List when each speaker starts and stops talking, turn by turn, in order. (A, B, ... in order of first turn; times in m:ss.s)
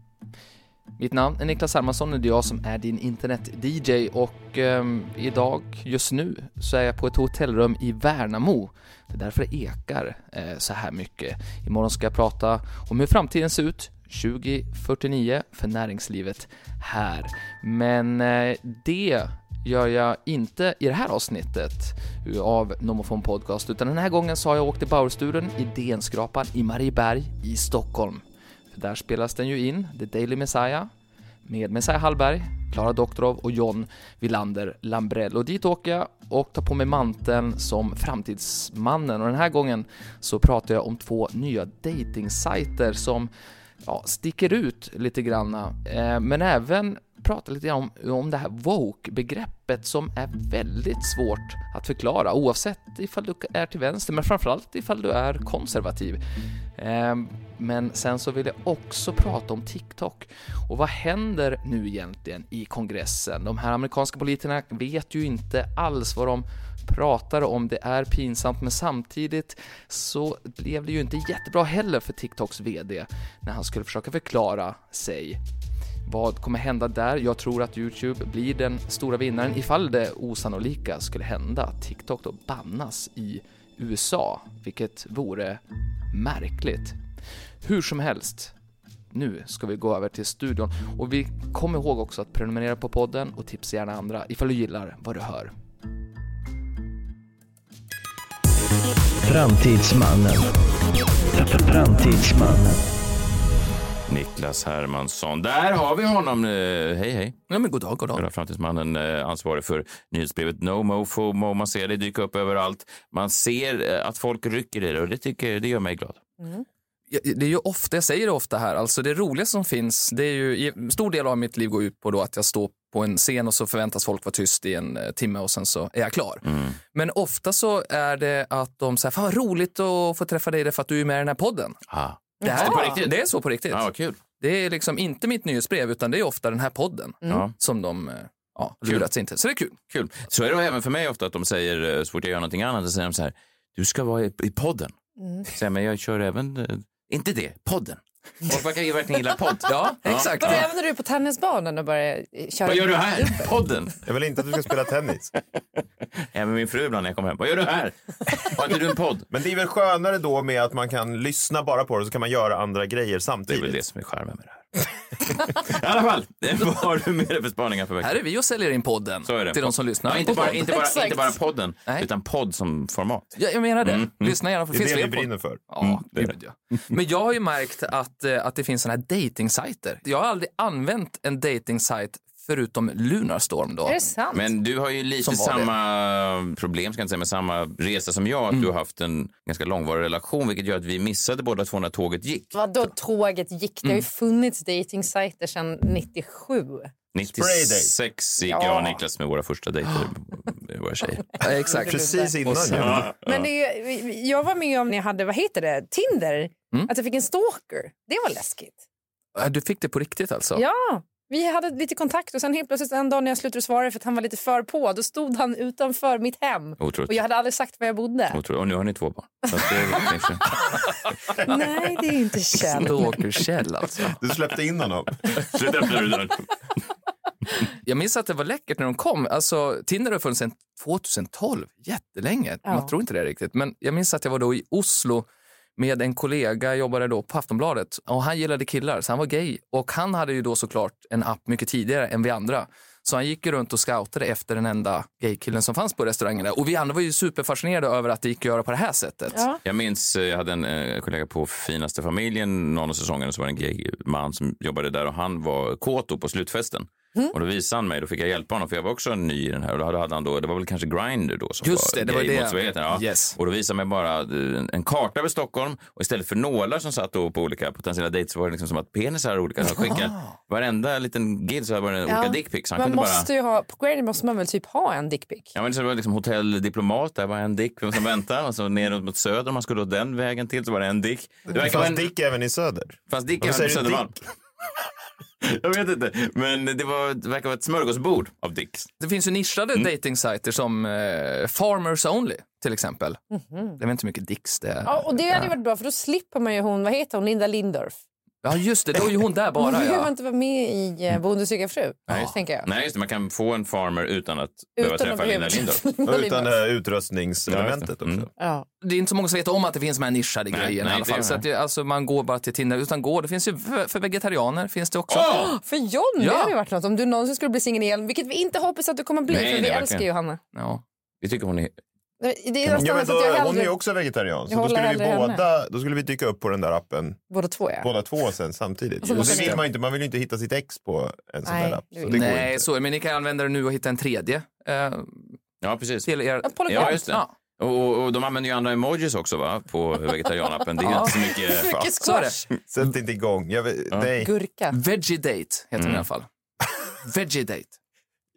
0:01.0-0:30.9 A
0:31.4-0:43.3 A
0:43.8-0:56.2 A
0:56.8-1:15.4 A
1:16.0-1:27.0 A
1:27.6-1:28.5 A
1:29.1-1:35.5 A
1:39.2-1:40.5 B
1:41.3-1:42.8 B
1:44.1-1:47.4 C
1:47.5-1:48.2 A
1:48.1-1:56.2 C
1:57.1-2:11.8 A
2:06.4-2:06.8 C
2:11.9-2:14.2 C
2:12.4-2:13.0 D
2:12.4-2:13.8 A
2:14.4-2:19.8 A
2:17.2-2:17.5 C
2:19.9-2:24.9 C
2:25.2-2:25.4 D
2:25.5-2:30.7 C
2:29.7-2:30.6 A
2:30.0-2:33.5 D
2:32.6-2:33.9 C
2:34.0-2:35.3 E
2:36.2-2:39.3 C
2:39.3-2:43.8 E
2:43.5-2:48.2 C
2:48.0-2:50.7 A
2:49.2-2:54.4 C
2:50.5-2:51.4 D
2:53.4-3:04.0 A
2:54.7-2:55.6 E
2:55.8-2:56.3 C
3:03.8-3:04.5 D
3:04.3-3:12.9 C
3:05.2-3:05.7 A
3:12.5-3:16.9 D
3:17.1-3:21.3 C
3:17.3-3:17.9 E
3:18.4-3:19.0 D
3:21.4-3:23.0 A
3:21.7-3:23.1 E
3:21.7-3:22.3 D
3:22.8-3:23.5 C
3:23.2-3:28.8 D
3:29.4-3:30.6 A
3:30.5-3:38.4 D
3:36.8-3:37.2 C
3:38.3-3:40.6 C
3:41.4-3:43.1 D
3:42.6-3:44.2 A
3:44.0-3:45.3 E
3:45.3-3:46.5 C
3:47.8-3:55.2 A
3:52.6-3:52.9 D
3:55.8-4:09.4 A
4:09.3-4:09.6 D
4:09.6-4:33.3 C
4:21.6-4:23.4 A
4:29.8-4:30.3 A
4:32.1-4:35.5 D
4:35.5-4:42.1 C
4:41.5-4:44.1 E
4:43.1-4:44.2 C
4:45.4-4:48.9 C
4:49.0-4:53.2 A
4:53.3-4:53.8 D
4:53.8-4:55.4 A
4:54.8-4:58.0 D
4:58.4-5:00.1 A
4:59.6-5:02.7 D
5:02.1-5:05.8 C
5:04.8-5:06.5 D
5:06.0-5:08.3 E
5:07.5-5:08.3 C
5:08.4-5:08.6 D
5:08.8-5:15.5 A
5:10.5-5:11.4 C
5:15.1-5:15.5 C
5:15.3-5:20.4 D
5:16.2-5:16.5 A
5:19.3-5:20.1 C
5:20.5-5:20.8 A
5:21.2-5:21.8 C
5:22.2-5:23.7 D
5:22.7-5:27.2 E
5:24.5-5:25.4 D
5:27.3-5:27.9 D
5:27.8-5:32.6 E
5:29.0-5:29.6 D
5:29.1-5:29.6 A
5:31.4-5:32.3 D
5:32.1-5:35.4 A
5:35.6-5:36.1 C
5:36.0-5:37.3 A
5:36.4-5:37.0 D
5:36.7-5:41.8 C
5:40.8-5:41.1 A
5:41.0-5:42.4 D
5:41.6-5:44.3 E
5:42.0-5:42.4 A
5:44.2-5:44.7 D
5:44.7-5:46.3 A
5:45.8-5:46.0 C
5:47.0-5:47.8 A